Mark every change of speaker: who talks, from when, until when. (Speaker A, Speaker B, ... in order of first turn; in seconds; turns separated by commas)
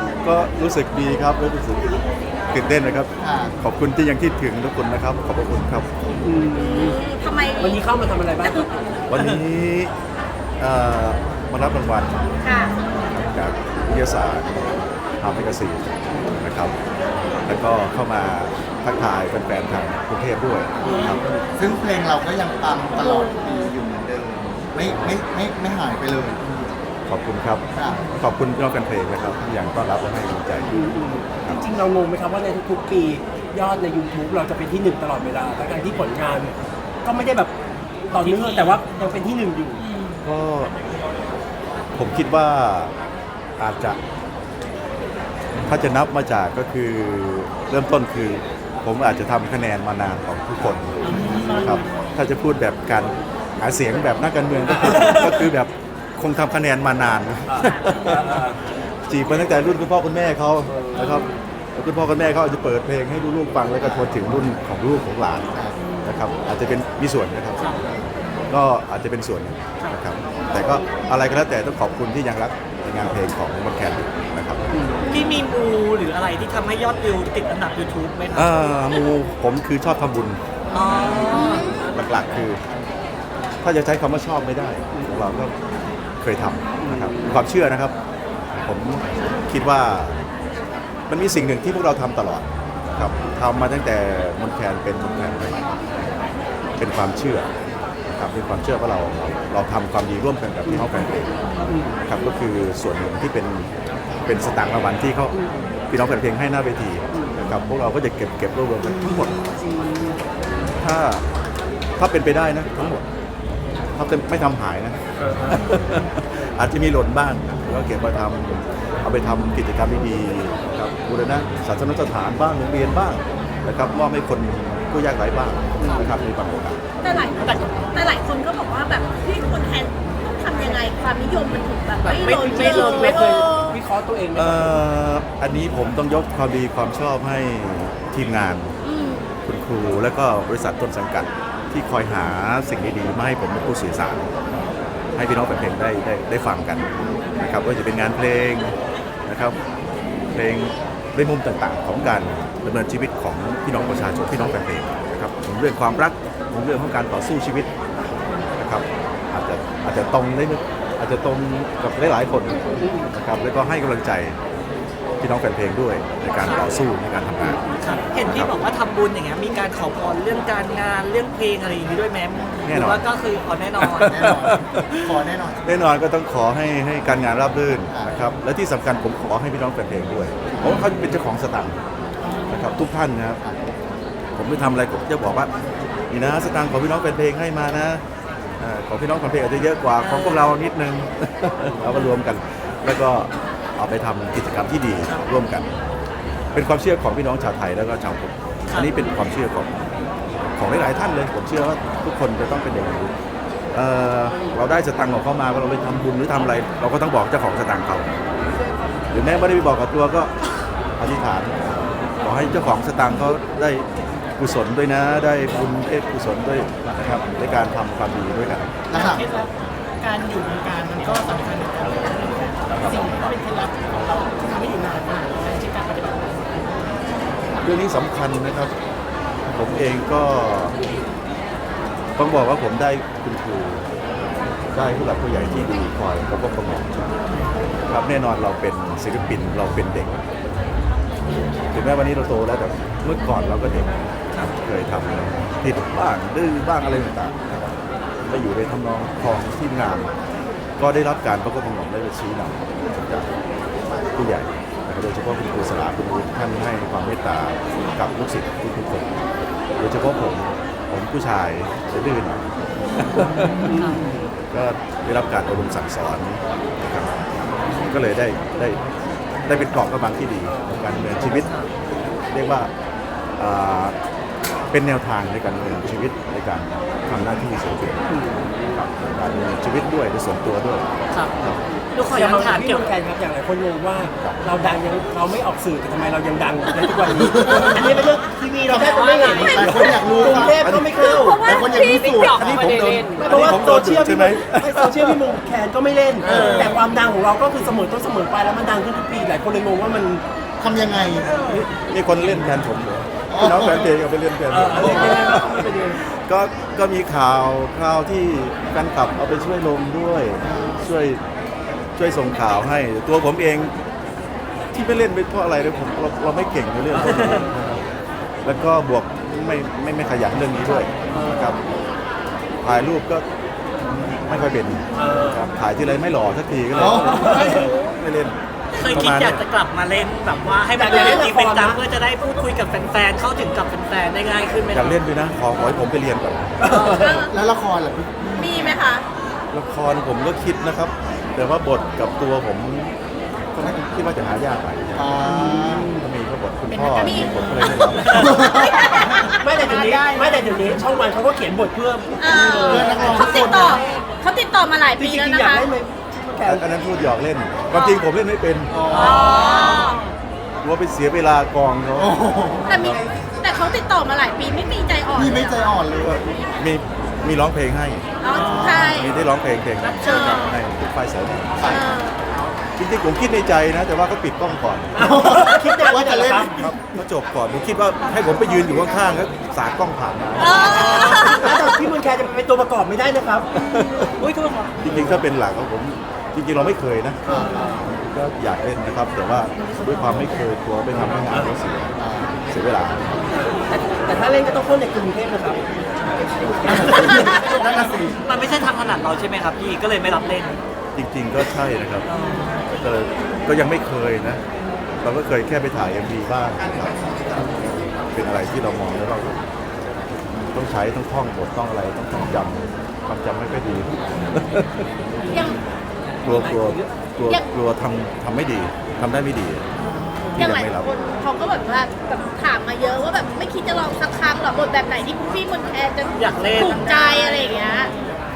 Speaker A: 0.2-1.9, Speaker A: 2.5-5.9, Speaker B: 3.2-3.5, Speaker C: 6.2-7.0, Speaker D: 6.5-7.8, Speaker C: 7.6-8.7, Speaker A: 9.1-9.9, Speaker A: 10.6-12.2, Speaker D: 12.4-12.8, Speaker A: 13.1-16.7, Speaker A: 17.5-21.2, Speaker C: 20.8-21.4, Speaker B: 21.6-26.4, Speaker D: 23.0-23.7, Speaker A: 24.9-25.1, Speaker A: 27.1-27.6, Speaker B: 27.8-28.0, Speaker A: 28.2-30.7, Speaker C: 30.7-37.5, Speaker C: 38.1-39.8, Speaker A: 40.2-40.8, Speaker A: 42.0-42.9, Speaker A: 43.6-44.0, Speaker A: 45.6-58.4, Speaker E: 51.1-51.8, Speaker C: 51.2-51.6, Speaker C: 54.6-55.5, Speaker C: 57.5-58.6, Speaker A: 59.1-65.5, Speaker C: 60.7-61.2, Speaker A: 66.0-67.6, Speaker F: 67.6-67.8, Speaker A: 68.5-74.6, Speaker C: 74.7-75.1, Speaker D: 75.0-75.3, Speaker F: 75.1-78.7, Speaker A: 78.3-80.4, Speaker F: 80.7-81.7, Speaker D: 81.1-81.8, Speaker A: 81.9-82.6, Speaker A: 83.6-85.5, Speaker C: 84.9-85.3, Speaker A: 86.2-87.9, Speaker C: 86.8-87.4, Speaker A: 88.6-90.2, Speaker A: 91.1-95.6, Speaker A: 96.8-97.5, Speaker A: 98.1-101.3, Speaker C: 101.7-102.0, Speaker A: 102.1-103.7, Speaker A: 104.3-105.3, Speaker C: 105.3-105.7, Speaker A: 105.9-109.4, Speaker C: 107.1-107.5, Speaker C: 108.9-110.2, Speaker A: 110.8-111.2, Speaker A: 112.0-113.0, Speaker A: 114.0-115.0, Speaker C: 115.2-115.6, Speaker A: 115.5-126.8, Speaker C: 125.8-126.1, Speaker D: 127.0-133.8, Speaker C: 132.0-134.8, Speaker A: 134.3-138.7, Speaker D: 138.8-139.3, Speaker A: 139.4-144.3, Speaker A: 145.2-148.8, Speaker A: 149.3-149.6, Speaker A: 150.3-157.7, Speaker A: 158.6-164.4, Speaker C: 162.8-163.1, Speaker A: 165.2-167.6, Speaker C: 167.4-168.1, Speaker F: 167.8-174.3, Speaker A: 168.2-168.6, Speaker A: 172.6-173.0, Speaker A: 173.8-175.1, Speaker B: 174.0-175.6, Speaker A: 175.6-181.8, Speaker B: 180.6-180.8, Speaker A: 182.5-183.4, Speaker A: 184.4-185.5, Speaker A: 186.1-188.0, Speaker A: 188.6-195.7, Speaker F: 190.0-190.5, Speaker A: 196.5-199.7, Speaker A: 200.6-203.1, Speaker A: 203.7-208.1, Speaker A: 209.1-210.3, Speaker A: 211.0-218.7, Speaker B: 218.9-219.2, Speaker E: 218.9-226.8, Speaker A: 222.8-223.1, Speaker A: 227.6-228.7, Speaker A: 229.4-230.8, Speaker A: 232.2-233.9, Speaker A: 234.7-237.1, Speaker A: 237.8-240.2, Speaker A: 241.7-247.8, Speaker A: 248.3-250.1, Speaker A: 250.8-253.3, Speaker A: 254.2-259.1, Speaker A: 259.8-262.4, Speaker A: 263.2-263.4, Speaker C: 263.2-264.3, Speaker F: 263.7-264.0, Speaker A: 264.5-267.1, Speaker A: 267.8-268.8, Speaker A: 269.5-271.5, Speaker F: 271.2-271.7, Speaker A: 272.3-272.7, Speaker A: 273.4-273.9, Speaker A: 274.7-278.0, Speaker C: 278.1-278.8, Speaker A: 278.7-280.9, Speaker F: 281.1-282.9, Speaker C: 282.0-291.5, Speaker B: 287.2-287.8, Speaker B: 288.7-290.6, Speaker F: 289.0-289.5, Speaker A: 290.4-290.9, Speaker D: 290.9-292.6, Speaker B: 291.3-292.7, Speaker F: 292.2-293.3, Speaker A: 292.3-295.2, Speaker C: 293.1-300.2, Speaker F: 296.2-296.7, Speaker B: 296.3-296.7, Speaker B: 300.6-301.3, Speaker A: 301.3-305.6, Speaker B: 303.3-303.9, Speaker C: 304.5-306.0, Speaker A: 306.2-311.2, Speaker A: 312.0-313.7, Speaker A: 314.7-317.8, Speaker A: 318.4-321.6, Speaker C: 321.1-321.6, Speaker A: 322.6-323.2, Speaker A: 323.8-329.4, Speaker C: 324.9-325.5, Speaker B: 326.7-327.6, Speaker C: 326.8-327.6, Speaker F: 328.7-335.0, Speaker C: 330.7-331.8, Speaker A: 334.7-336.6, Speaker C: 336.6-337.0, Speaker D: 336.6-337.3, Speaker B: 337.3-338.8, Speaker D: 338.4-339.1, Speaker A: 339.5-342.9, Speaker A: 343.5-345.1, Speaker B: 344.9-345.9, Speaker C: 345.2-346.1, Speaker A: 345.8-348.6, Speaker E: 346.7-348.1, Speaker D: 347.0-347.9, Speaker B: 348.0-348.9, Speaker D: 348.4-349.4, Speaker E: 349.2-350.8, Speaker C: 349.3-353.2, Speaker D: 352.2-355.7, Speaker E: 352.6-353.8, Speaker B: 352.7-353.8, Speaker C: 355.0-356.7, Speaker A: 356.4-358.8, Speaker B: 358.7-359.6, Speaker D: 358.9-360.0, Speaker E: 359.4-360.1, Speaker A: 360.6-363.0, Speaker B: 362.0-363.0, Speaker D: 362.6-365.7, Speaker B: 365.2-366.2, Speaker A: 366.0-371.8, Speaker D: 368.2-369.2, Speaker B: 368.3-369.1, Speaker D: 369.9-370.6, Speaker B: 371.6-371.9, Speaker D: 371.6-372.2, Speaker A: 372.8-375.0, Speaker C: 375.0-376.7, Speaker B: 375.0-376.8, Speaker A: 376.7-381.6, Speaker D: 380.4-381.5, Speaker C: 380.8-383.5, Speaker A: 383.6-384.2, Speaker F: 384.2-384.8, Speaker A: 384.8-393.2, Speaker B: 387.3-387.8, Speaker B: 392.0-392.3, Speaker C: 393.4-395.6, Speaker C: 396.6-397.5, Speaker B: 396.7-398.2, Speaker F: 398.3-400.6, Speaker A: 400.9-402.1, Speaker F: 402.1-402.6, Speaker A: 402.7-404.4, Speaker A: 405.0-409.4, Speaker A: 410.5-414.8, Speaker D: 415.3-415.6, Speaker C: 416.2-416.9, Speaker A: 416.2-419.7, Speaker A: 420.3-420.9, Speaker D: 420.4-427.9, Speaker F: 426.2-427.1, Speaker E: 427.0-428.0